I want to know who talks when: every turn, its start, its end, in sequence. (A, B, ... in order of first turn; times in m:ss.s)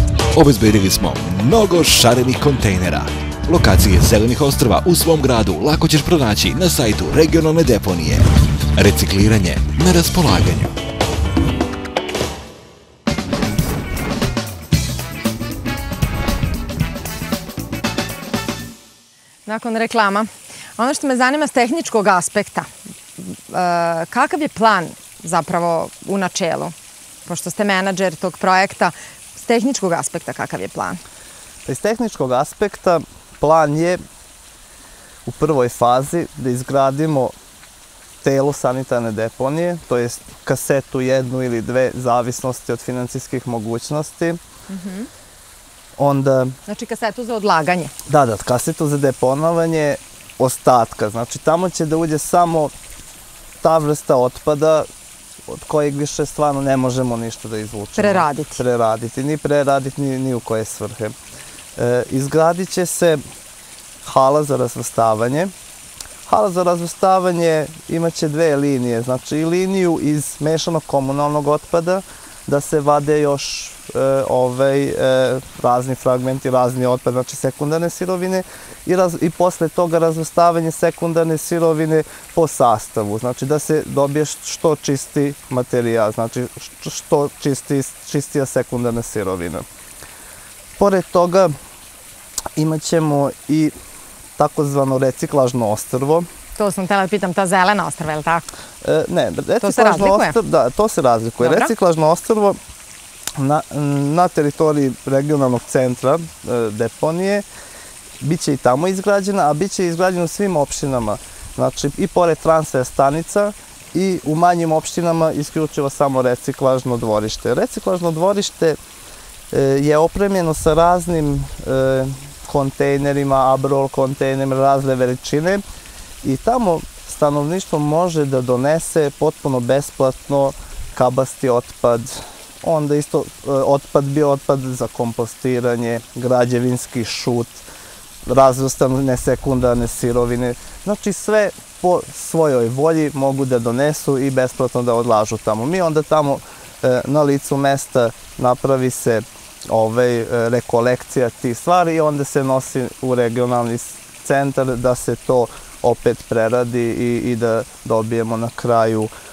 0:00.3-0:10.8 A
0:19.5-0:26.7 B
0:27.3-0:31.0 B
0:31.7-0:34.0 C
0:35.3-0:37.3 C
0:38.2-0:44.4 C
0:44.7-0:45.1 B
0:46.0-0:46.6 C
0:46.7-0:47.9 B
0:48.1-0:52.7 C
0:53.6-0:54.9 C
0:55.5-1:01.2 C
0:58.0-0:58.6 B
1:01.8-1:03.2 C
1:04.0-1:05.5 C
1:06.3-1:29.7 C
1:30.8-1:31.5 C
1:32.6-1:33.7 C
1:34.4-1:36.3 C
1:36.6-1:38.5 B
1:38.8-1:42.6 C
1:39.6-1:40.4 B
1:41.4-1:41.7 B
1:43.4-1:47.4 C
1:48.2-1:58.8 C
1:59.5-2:05.6 C
2:06.2-2:17.6 C
2:18.3-2:39.1 C